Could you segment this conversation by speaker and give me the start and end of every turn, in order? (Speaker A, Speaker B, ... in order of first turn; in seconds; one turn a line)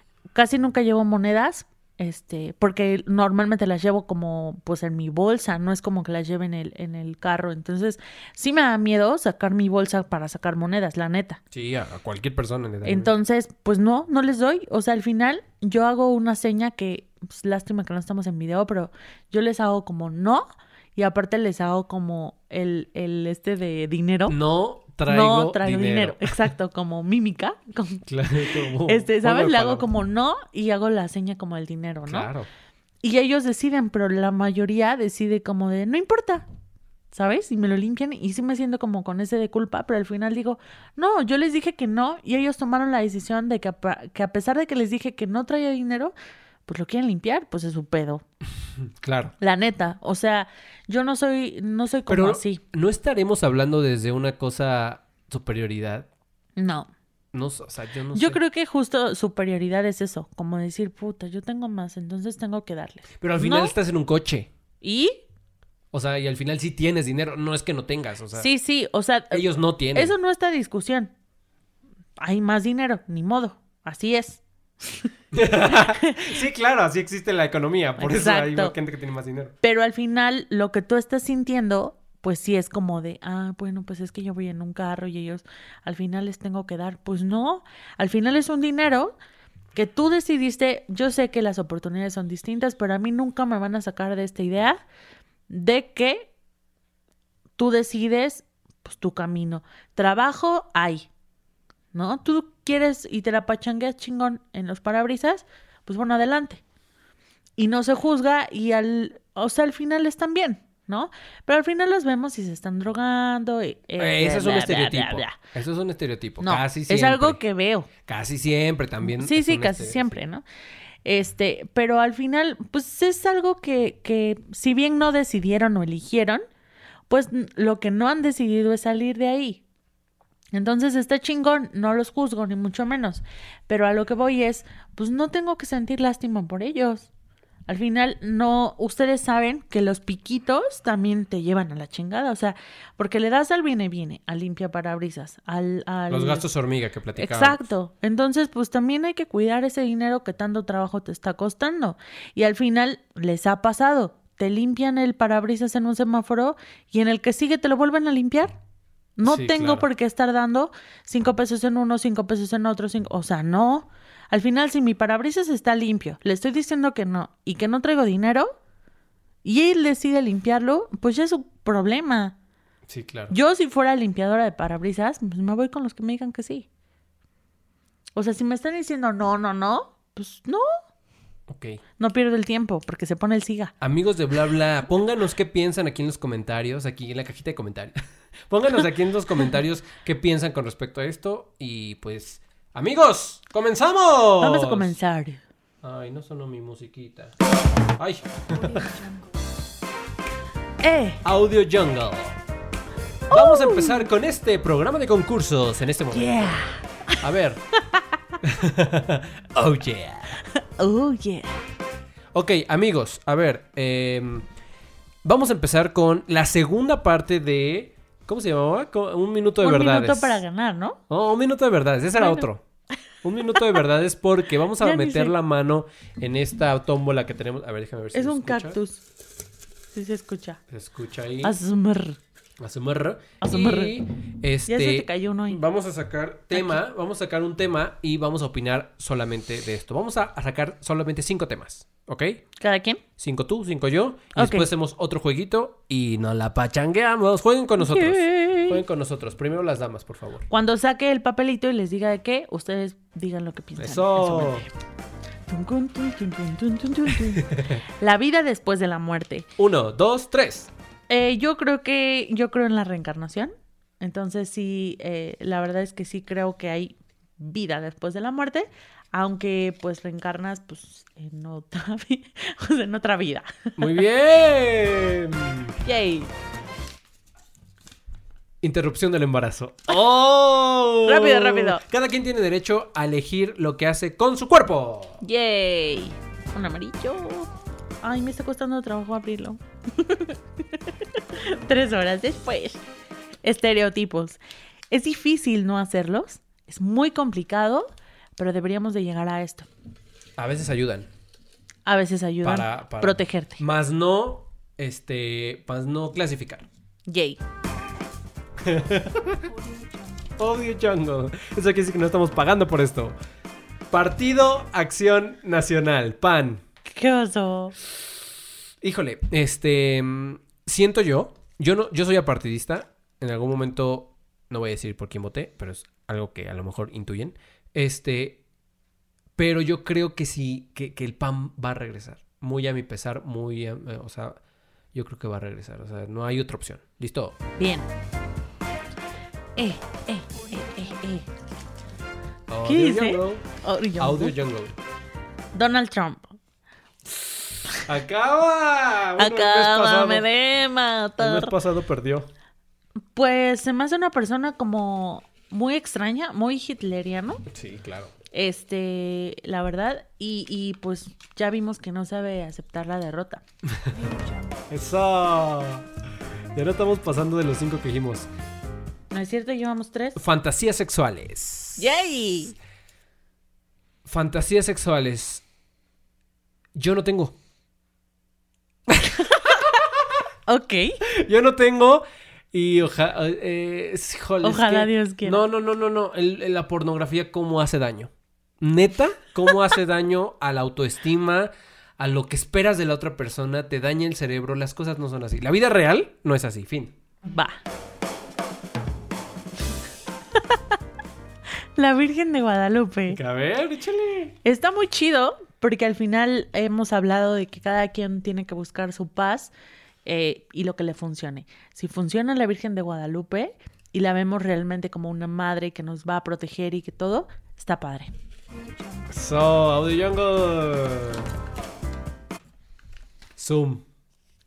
Speaker A: 0.3-11.4
Speaker B: 11.5-13.1
Speaker A: 12.8-24.4
Speaker B: 24.3-26.5
Speaker A: 25.1-28.0
Speaker B: 28.1-29.9
Speaker A: 28.8-32.3
Speaker B: 32.1-32.5
Speaker A: 33.0-36.5
Speaker A: 37.1-46.1
Speaker A: 46.7-48.2
Speaker B: 49.0-49.3
Speaker A: 49.4-52.6
Speaker B: 52.1-56.1
Speaker A: 56.6-56.9
Speaker B: 57.3-58.4
Speaker A: 58.1-63.7
Speaker B: 63.2-64.5
Speaker A: 64.8-65.2
Speaker B: 65.9-68.5
Speaker A: 68.3-71.1
Speaker B: 69.3-70.2
Speaker A: 72.2-75.1
Speaker B: 75.3-79.5
Speaker A: 75.7-76.3
Speaker A: 78.0-78.7
Speaker A: 79.6-89.1
Speaker A: 89.7-94.8
Speaker A: 95.5-96.3
Speaker A: 97.6-101.1
Speaker A: 101.9-106.6
Speaker A: 107.6-115.4
Speaker B: 114.0-117.4
Speaker A: 116.4-117.9
Speaker B: 118.0-120.2
Speaker A: 119.0-120.5
Speaker A: 121.0-126.4
Speaker A: 127.1-129.6
Speaker A: 130.5-137.1
Speaker A: 137.7-146.5
Speaker B: 146.1-147.7
Speaker A: 147.2-158.5
Speaker A: 159.2-168.5
Speaker B: 159.2-159.9
Speaker A: 169.4-172.3
Speaker B: 172.9-173.3
Speaker A: 173.3-176.7
Speaker A: 178.2-180.7
Speaker B: 181.5-181.8
Speaker A: 182.0-183.7
Speaker B: 183.8-187.9
Speaker B: 188.5-194.9
Speaker A: 194.4-195.4
Speaker B: 195.8-197.3
Speaker B: 198.0-198.9
Speaker A: 200.8-201.2
Speaker B: 201.2-202.4
Speaker A: 203.3-204.1
Speaker B: 203.3-206.7
Speaker A: 206.1-207.2
Speaker B: 207.2-207.6
Speaker B: 208.4-210.4
Speaker A: 210.6-211.5
Speaker B: 212.3-214.5
Speaker B: 215.2-220.4
Speaker A: 219.6-221.0
Speaker B: 221.1-222.6
Speaker A: 222.2-222.5
Speaker B: 223.2-228.8
Speaker A: 224.8-225.3
Speaker A: 228.1-229.0
Speaker A: 229.9-230.6
Speaker B: 230.7-231.6
Speaker A: 231.4-232.2
Speaker B: 232.6-242.4
Speaker A: 233.4-234.0
Speaker A: 234.7-235.6
Speaker A: 236.5-236.8
Speaker A: 242.6-243.0
Speaker B: 243.2-250.5
Speaker A: 244.3-244.7
Speaker A: 247.8-248.8
Speaker A: 250.5-254.7
Speaker B: 253.8-254.7
Speaker A: 255.5-259.5
Speaker B: 257.1-257.8
Speaker B: 259.6-260.7
Speaker A: 261.1-274.0
Speaker B: 273.8-275.8
Speaker A: 275.9-276.3
Speaker B: 278.6-285.2
Speaker A: 281.0-281.8
Speaker A: 285.2-287.5
Speaker A: 288.0-292.8
Speaker A: 293.4-299.7
Speaker B: 300.4-301.1
Speaker A: 301.9-303.6
Speaker B: 302.4-306.6
Speaker A: 307.1-307.4
Speaker B: 308.6-309.5
Speaker B: 310.4-313.1
Speaker B: 313.9-316.6
Speaker A: 316.9-317.8
Speaker B: 318.8-328.4
Speaker B: 329.4-334.4
Speaker B: 334.9-337.4
Speaker A: 337.6-337.9
Speaker A: 339.6-341.3
Speaker B: 342.5-343.4
Speaker A: 342.6-344.3
Speaker B: 344.0-344.8
Speaker A: 345.5-346.4
Speaker A: 347.2-347.7
Speaker B: 347.9-350.3
Speaker A: 349.2-351.5
Speaker B: 351.2-352.3
Speaker A: 353.1-357.4
Speaker B: 357.5-358.1
Speaker A: 358.3-363.4
Speaker B: 364.7-365.9
Speaker B: 366.6-368.3
Speaker A: 369.1-370.2
Speaker B: 370.1-371.9
Speaker A: 371.8-372.6
Speaker B: 374.1-375.4
Speaker B: 376.8-377.4
Speaker B: 378.9-380.2
Speaker A: 380.5-381.0
Speaker B: 381.1-396.9
Speaker A: 384.4-385.4
Speaker A: 397.3-397.6
Speaker A: 400.4-400.8
Speaker A: 401.8-403.2
Speaker B: 403.1-404.4
Speaker A: 404.4-409.5
Speaker A: 410.1-418.1
Speaker B: 419.1-421.3
Speaker B: 423.4-423.9